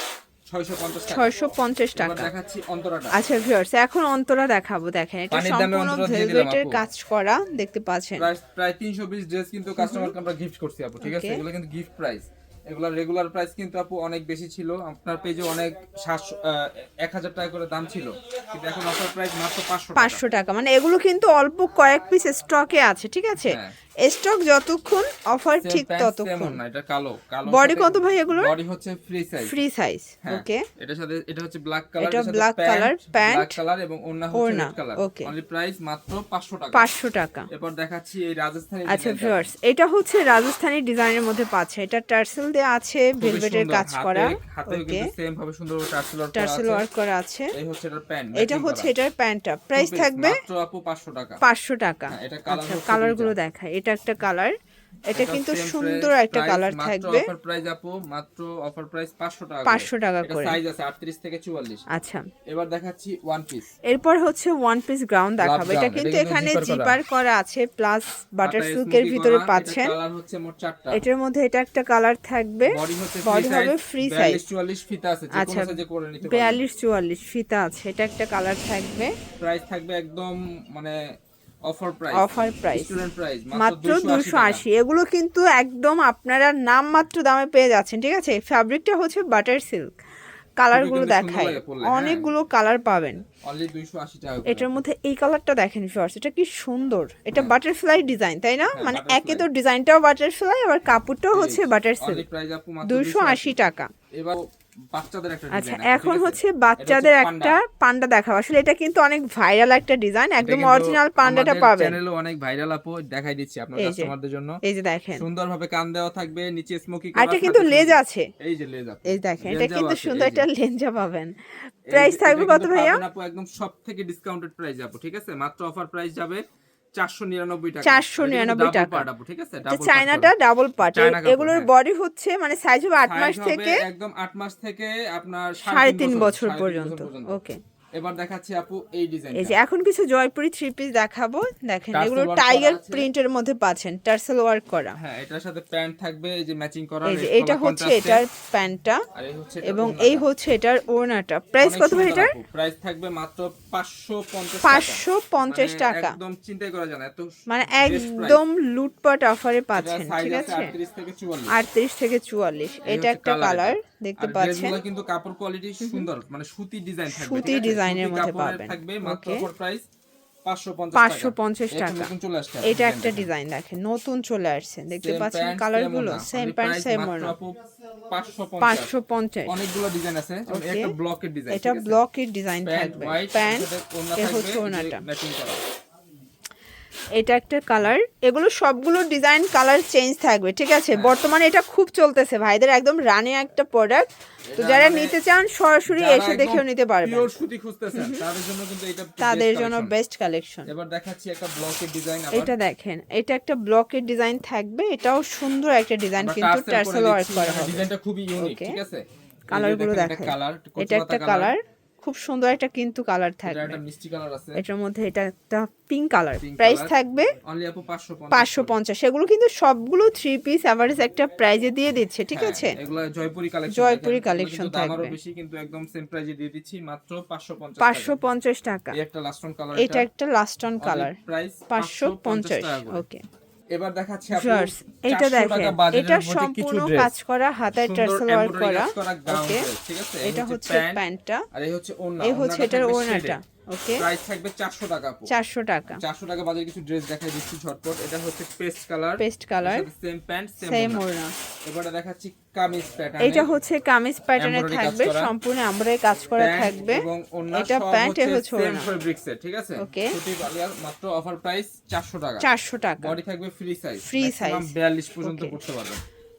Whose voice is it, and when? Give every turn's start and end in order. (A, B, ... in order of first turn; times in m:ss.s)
0:00.5-0:01.3 A
0:01.1-0:02.3 B
0:01.9-0:03.1 A
0:03.1-0:08.3 B
0:05.3-0:06.8 A
0:08.2-0:20.2 A
0:09.8-0:10.1 B
0:11.0-0:11.4 B
0:19.9-0:26.6 B
0:23.4-0:23.7 A
0:25.6-0:29.6 A
0:27.4-0:28.5 B
0:29.4-0:30.6 B
0:30.2-0:36.9 A
0:32.0-0:33.6 B
0:34.3-0:35.3 B
0:36.7-0:37.5 B
0:37.5-0:39.5 A
0:38.9-0:45.1 B
0:43.2-0:46.8 A
0:46.3-0:47.5 B
0:47.5-0:48.9 A
0:48.3-0:50.4 B
0:49.8-0:51.4 A
0:51.4-0:54.5 B
0:52.1-0:53.3 A
0:55.1-0:57.3 B
0:55.1-1:01.8 A
0:59.6-1:00.6 B
1:01.9-1:02.2 B
1:02.5-1:03.7 A
1:03.8-1:10.0 B
1:05.4-1:07.0 A
1:08.4-1:11.0 A
1:10.9-1:14.4 B
1:12.7-1:16.6 A
1:15.3-1:19.1 B
1:19.4-1:21.0 A
1:21.7-1:24.6 A
1:22.1-1:23.0 B
1:23.5-1:30.0 B
1:30.6-1:33.2 B
1:30.7-1:32.3 A
1:33.4-1:34.8 A
1:34.4-1:42.2 B
1:38.7-1:39.5 A
1:41.3-1:43.6 A
1:42.8-1:43.9 B
1:44.9-1:47.6 A
1:45.5-1:52.0 B
1:50.4-1:54.5 A
1:53.8-1:54.1 B
1:54.6-1:55.2 B
1:55.2-2:00.5 A
1:57.2-1:58.3 B
1:59.0-2:01.3 B
2:01.9-2:03.0 B
2:01.9-2:06.4 A
2:07.0-2:11.7 A
2:07.8-2:09.1 B
2:09.7-2:13.8 B
2:13.0-2:17.4 A
2:15.6-2:17.6 B
2:18.0-2:19.6 A
2:19.3-2:25.0 B
2:21.9-2:23.1 A
2:24.9-2:28.2 A
2:27.0-2:29.0 B
2:29.1-2:30.2 A
2:29.6-2:32.4 B
2:31.6-2:38.4 A
2:34.6-2:36.2 B
2:37.5-2:40.7 B
2:39.7-2:41.5 A
2:41.5-2:44.8 B
2:42.8-2:49.8 A
2:45.8-2:46.1 B
2:47.1-2:49.5 B
2:50.4-2:53.3 A
2:51.0-2:52.1 B
2:52.6-2:57.4 B
2:55.0-2:58.9 A
2:58.6-2:59.6 B
2:59.5-3:02.0 A
3:00.5-3:00.9 B
3:01.5-3:05.0 B
3:02.6-3:05.6 A
3:07.2-3:17.3 B
3:14.5-3:15.2 A
3:15.9-3:19.9 A
3:17.9-3:18.2 B
3:19.2-3:20.7 B
3:20.7-3:22.5 A
3:22.3-3:28.8 B
3:26.2-3:31.5 A
3:29.5-3:33.8 B
3:33.4-3:34.6 A
3:34.6-3:37.4 B
3:36.4-3:36.9 A
3:37.4-3:38.7 A
3:38.3-3:42.8 B
3:42.3-3:48.2 A
3:43.7-3:45.2 B
3:47.8-3:49.0 B
3:48.9-3:50.1 A
3:49.8-3:51.2 B
3:50.8-3:53.0 A
3:51.7-3:53.2 B
3:53.7-3:57.1 A
3:54.3-3:59.6 B
3:57.7-4:03.4 A
4:00.2-4:01.4 B
4:02.2-4:04.0 B
4:04.0-4:05.3 A
4:05.3-4:06.0 B
4:05.9-4:11.0 A
4:09.2-4:09.9 B
4:10.6-4:11.3 B
4:11.6-4:13.5 A
4:13.2-4:18.9 B
4:14.4-4:15.3 A
4:16.4-4:22.5 A
4:19.8-4:20.2 B
4:22.4-4:23.2 B
4:23.0-4:26.0 A
4:24.0-4:25.6 B